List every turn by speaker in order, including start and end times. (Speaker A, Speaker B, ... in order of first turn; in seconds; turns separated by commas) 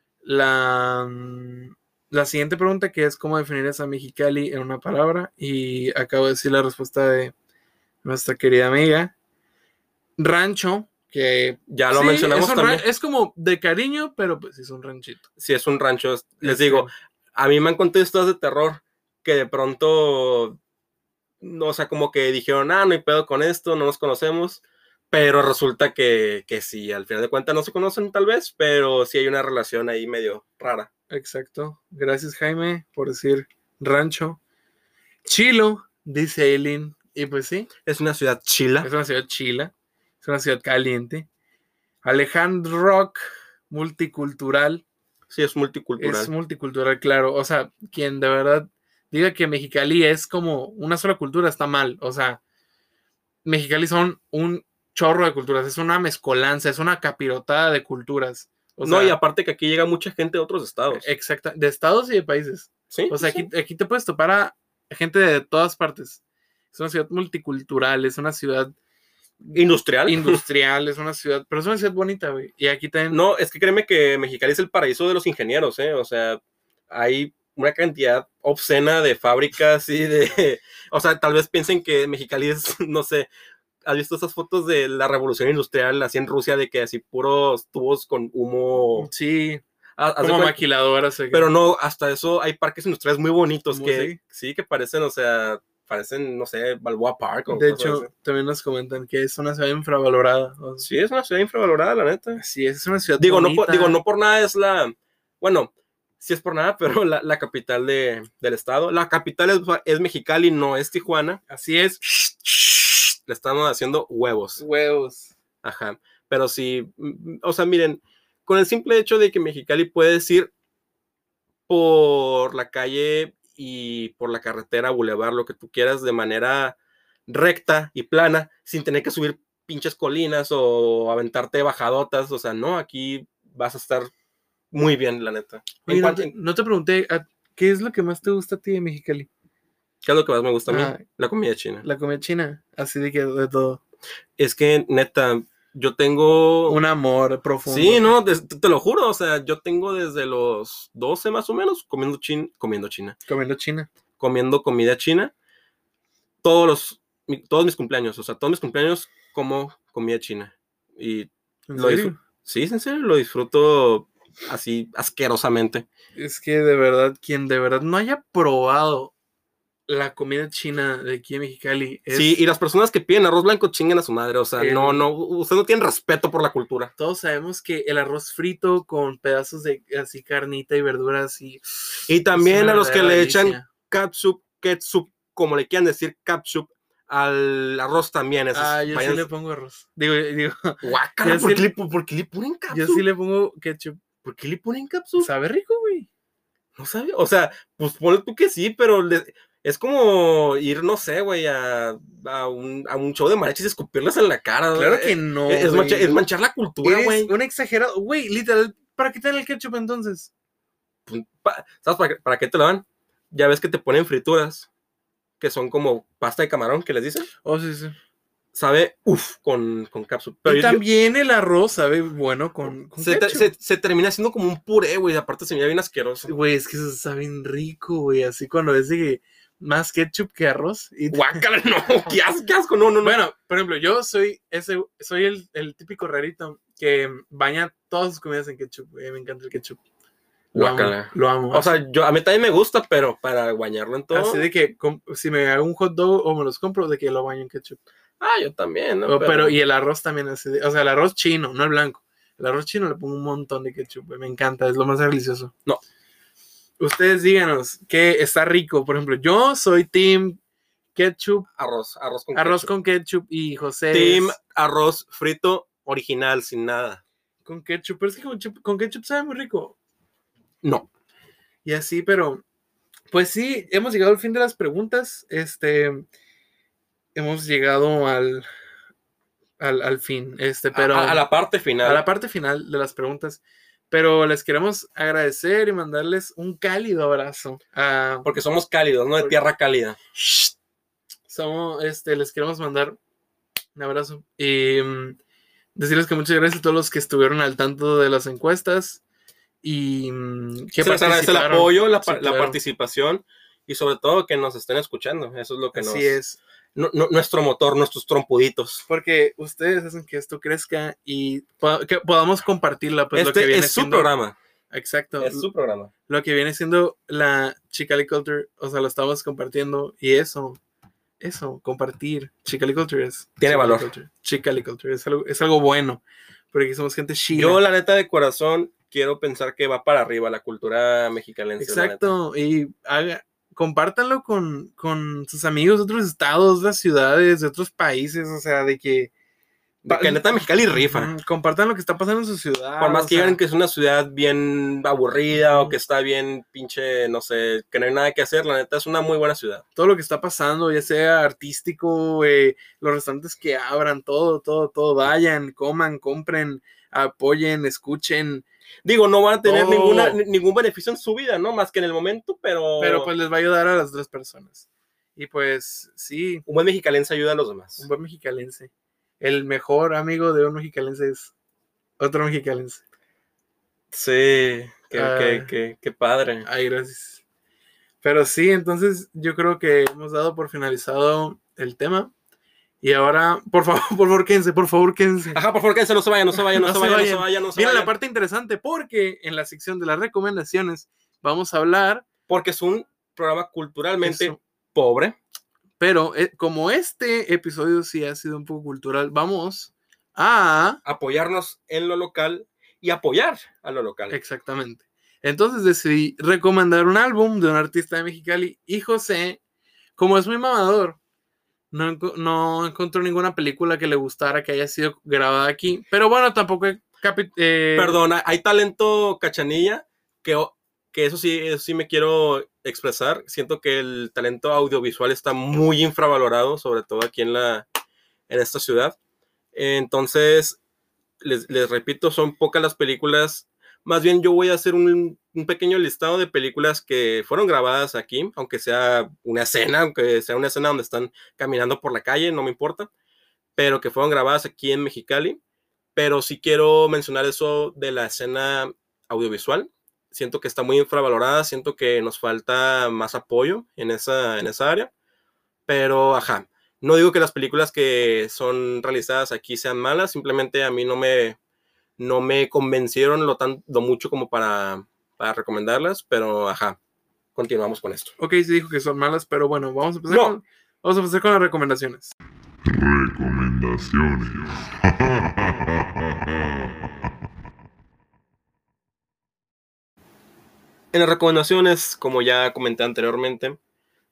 Speaker A: 0.2-7.3, Speaker A: 8.0-9.1, Speaker A: 10.2-15.2, Speaker B: 11.7-12.8, Speaker B: 15.4-20.6, Speaker A: 16.4-16.9, Speaker B: 21.4-30.9, Speaker A: 31.1-34.4, Speaker A: 35.2-37.7, Speaker B: 37.9-38.9, Speaker A: 38.8-41.3, Speaker A: 42.0-44.8, Speaker B: 45.3-46.3, Speaker A: 46.0-52.4, Speaker A: 53.4-59.1, Speaker B: 58.8-61.0, Speaker A: 60.9-66.2, Speaker B: 62.9-63.5, Speaker A: 66.7-68.7, Speaker B: 69.5-70.4, Speaker A: 70.0-73.2, Speaker B: 73.1-83.3, Speaker B: 83.8-89.1, Speaker A: 89.0-89.6, Speaker B: 90.0-90.6, Speaker A: 90.2-91.5, Speaker B: 91.3-98.1, Speaker A: 93.7-94.2, Speaker A: 97.5-100.8, Speaker B: 100.8-102.4, Speaker A: 102.4-104.0, Speaker B: 103.2-111.4, Speaker A: 111.5-112.7, Speaker B: 113.2-114.6, Speaker A: 114.6-115.3, Speaker B: 115.6-120.5, Speaker B: 121.7-126.8, Speaker B: 127.3-134.1, Speaker B: 134.7-136.3, Speaker A: 135.8-139.3, Speaker B: 140.0-141.8, Speaker A: 140.7-141.0, Speaker A: 141.8-143.8, Speaker B: 144.4-146.8, Speaker A: 146.7-148.1, Speaker B: 147.6-153.1, Speaker A: 153.3-153.9, Speaker B: 154.2-155.3, Speaker B: 156.4-165.8, Speaker A: 161.7-162.2, Speaker A: 166.2-169.1, Speaker A: 169.9-172.4, Speaker B: 172.1-176.9, Speaker A: 174.6-175.0, Speaker A: 177.0-183.7, Speaker B: 182.1-189.3, Speaker A: 188.5-191.7, Speaker B: 190.8-193.0, Speaker A: 192.7-194.0, Speaker B: 194.2-195.3, Speaker A: 195.2-196.1, Speaker B: 196.8-207.3, Speaker A: 204.7-206.2, Speaker A: 206.8-210.3, Speaker B: 211.1-214.7, Speaker B: 215.4-217.3, Speaker A: 217.4-217.9, Speaker B: 218.5-220.8, Speaker A: 220.4-223.5, Speaker B: 223.0-226.3, Speaker A: 226.2-231.4, Speaker B: 231.1-233.2, Speaker A: 233.0-239.8, Speaker A: 240.5-241.7, Speaker B: 240.5-244.5, Speaker A: 244.1-247.8, Speaker B: 248.2-249.6, Speaker A: 249.0-255.5, Speaker A: 256.8-260.4, Speaker A: 260.9-261.5, Speaker B: 261.6-262.7, Speaker A: 262.3-264.4, Speaker B: 263.9-267.0, Speaker A: 267.4-269.8, Speaker A: 271.6-272.4, Speaker A: 273.1-276.0, Speaker A: 277.1-278.5, Speaker A: 279.6-281.2, Speaker B: 280.7-282.0, Speaker A: 281.8-288.3, Speaker B: 288.2-290.0, Speaker A: 290.2-290.5, Speaker A: 291.3-293.0, Speaker A: 293.7-295.2, Speaker A: 295.8-299.0, Speaker A: 299.6-302.6, Speaker B: 300.8-306.2, Speaker A: 305.7-306.4, Speaker B: 306.7-308.8, Speaker A: 308.9-314.1, Speaker B: 313.1-314.3, Speaker A: 314.7-315.4, Speaker B: 315.2-315.9, Speaker A: 316.1-320.6, Speaker A: 321.2-327.6, Speaker B: 323.4-323.9, Speaker B: 327.3-332.1, Speaker A: 331.6-339.1, Speaker B: 339.8-341.1, Speaker A: 339.9-343.4, Speaker B: 342.8-349.6, Speaker A: 345.3-345.8, Speaker A: 349.8-358.4, Speaker B: 358.8-363.1, Speaker A: 359.4-360.2, Speaker A: 362.8-366.4, Speaker B: 366.5-367.9, Speaker A: 367.8-368.7, Speaker A: 369.2-371.3, Speaker A: 372.0-372.8, Speaker B: 373.9-376.4, Speaker A: 374.9-375.5, Speaker A: 376.4-377.2, Speaker A: 378.0-382.1, Speaker A: 382.8-385.4, Speaker B: 385.3-387.9, Speaker A: 386.5-392.0, Speaker B: 392.3-395.1, Speaker A: 394.0-394.4, Speaker A: 395.8-400.8, Speaker B: 400.8-404.2, Speaker A: 404.1-409.4, Speaker A: 410.0-411.0, Speaker A: 411.7-418.0, Speaker B: 417.8-427.6, Speaker B: 428.3-428.9, Speaker B: 429.5-430.6, Speaker B: 431.2-442.9, Speaker B: 443.6-445.4, Speaker B: 445.9-454.9, Speaker B: 455.7-461.4, Speaker B: 462.0-466.8, Speaker B: 467.4-468.1, Speaker A: 468.2-472.1, Speaker B: 470.1-470.3, Speaker C: 472.6-477.1, Speaker B: 480.9-483.6